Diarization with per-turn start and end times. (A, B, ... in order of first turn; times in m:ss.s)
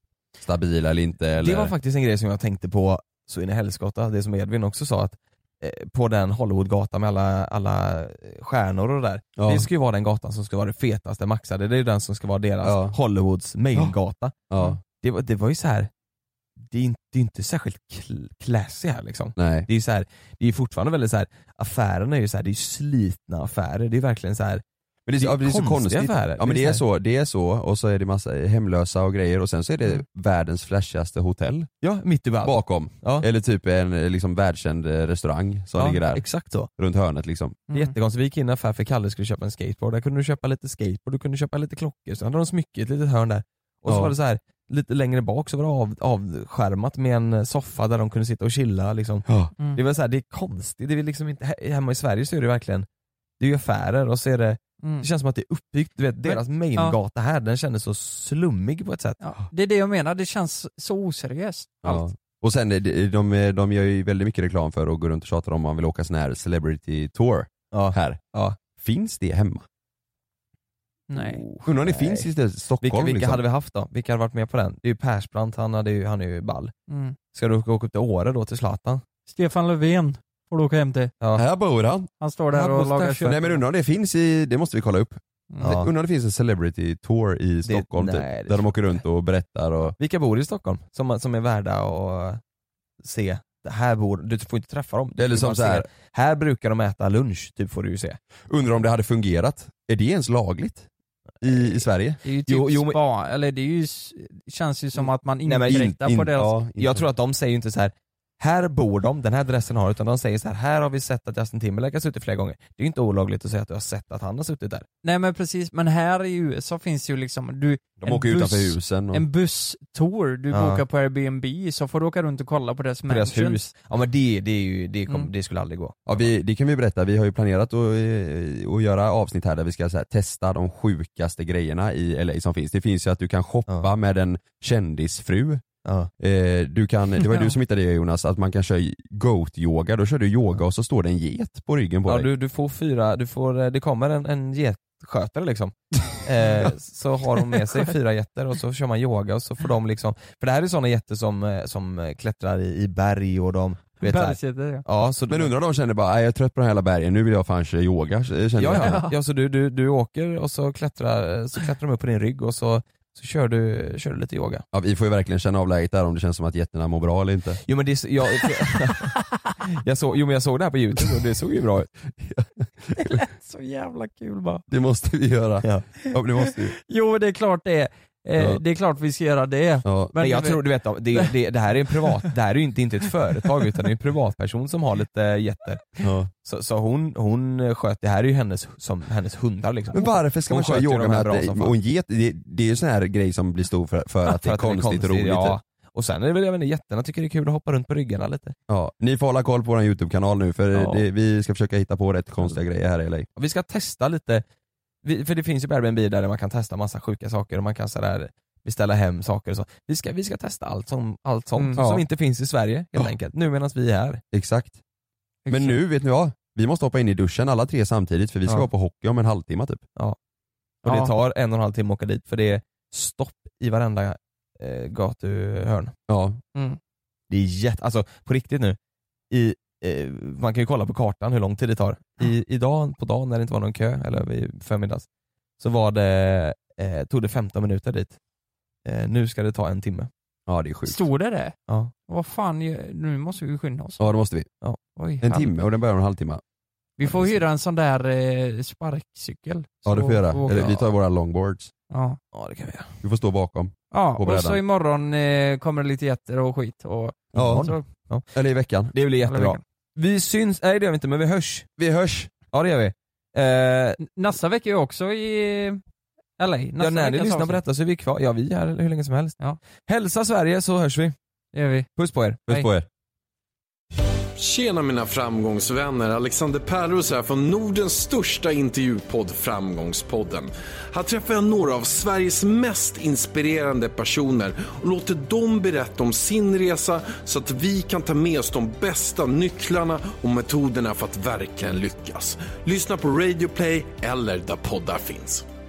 0:00.4-0:01.7 A
0:01.4-0:14.4 B
0:09.4-0:09.7 A
0:12.6-0:13.0 A
0:14.5-0:14.8 A
0:14.9-0:15.9 B
0:16.6-0:24.6 B
0:19.4-0:19.7 A
0:25.1-0:31.7 A
0:25.2-0:26.8 B
0:31.8-0:33.3 B
0:32.4-0:36.2 A
0:35.8-0:36.7 B
0:36.8-0:37.6 A
0:37.7-0:52.9 B
0:43.9-0:44.1 A
0:49.3-0:49.5 A
0:53.4-0:59.2 B
0:56.2-0:57.0 C
0:59.2-1:02.0 C
1:01.8-1:08.2 A
1:07.7-1:08.6 B
1:08.8-1:09.6 A
1:11.1-1:11.4 C
1:11.2-1:13.4 A
1:11.6-1:12.3 B
1:12.8-1:16.7 B
1:16.9-1:17.2 C
1:17.3-1:19.0 B
1:19.3-1:21.1 C
1:21.4-1:22.1 A
1:22.2-1:23.6 C
1:22.5-1:23.4 B
1:23.2-1:30.0 A
1:25.6-1:25.9 B
1:27.6-1:28.7 B
1:30.0-1:32.4 B
1:33.0-1:38.2 B
1:35.2-1:35.9 A
1:38.5-1:40.9 A
1:41.4-1:41.8 B
1:41.4-1:42.2 A
1:42.2-1:46.5 C
1:42.5-1:43.0 B
1:45.5-1:46.0 B
1:45.6-1:47.1 A
1:46.8-1:54.9 B
1:55.0-2:03.7 C
1:58.0-1:59.3 A
2:00.5-2:00.8 B
2:03.1-2:06.3 B
2:06.1-2:15.6 A
2:15.8-2:16.1 B
2:16.2-2:22.3 A
2:22.1-2:35.5 B
2:27.5-2:27.9 C
2:34.0-2:34.8 C
2:35.3-2:39.0 A
2:38.6-2:44.6 B
2:38.8-2:39.1 C
2:44.7-2:47.6 A
2:47.6-2:51.9 B
2:52.2-2:53.2 A
2:53.0-2:54.6 C
2:54.7-2:56.8 A
2:55.6-2:55.9 B
2:56.8-3:00.6 C
2:59.8-3:00.1 A
3:00.2-3:11.7 B
3:06.0-3:06.3 A
3:09.9-3:15.6 A
3:14.4-3:18.6 B
3:18.7-3:23.3 A
3:20.8-3:21.0 B
3:23.4-3:24.4 B
3:25.0-3:34.2 B
3:31.6-3:31.8 C
3:31.8-3:32.0 A
3:34.3-3:34.8 A
3:35.5-3:35.8 C
3:35.5-3:39.8 A
3:40.8-3:41.2 C
3:40.8-3:45.9 B
3:46.1-3:46.4 A
3:47.3-3:48.8 B
3:49.3-3:55.1 B
3:55.6-3:58.2 B
3:58.8-4:00.1 B
4:00.5-4:01.1 A
4:00.8-4:01.6 C
4:01.7-4:01.9 B
4:02.1-4:04.1 C
4:04.0-4:04.5 A
4:05.0-4:05.5 C
4:05.2-4:06.4 A
4:07.0-4:10.8 C
4:07.0-4:07.3 B
4:09.9-4:11.7 A
4:10.5-4:10.8 B
4:11.9-4:12.2 C
4:12.3-4:13.0 B
4:13.0-4:14.6 A
4:13.9-4:17.8 C
4:17.3-4:17.8 A
4:17.4-4:18.3 B
4:18.3-4:18.9 A
4:18.9-4:21.7 B
4:19.2-4:19.6 C
4:21.8-4:22.3 A
4:22.5-4:24.0 B
4:24.0-4:25.8 C
4:26.4-4:27.6 C
4:26.8-4:31.2 B
4:31.5-4:31.9 C
4:32.0-4:32.5 B
4:32.5-4:32.9 A
4:34.4-4:55.4 D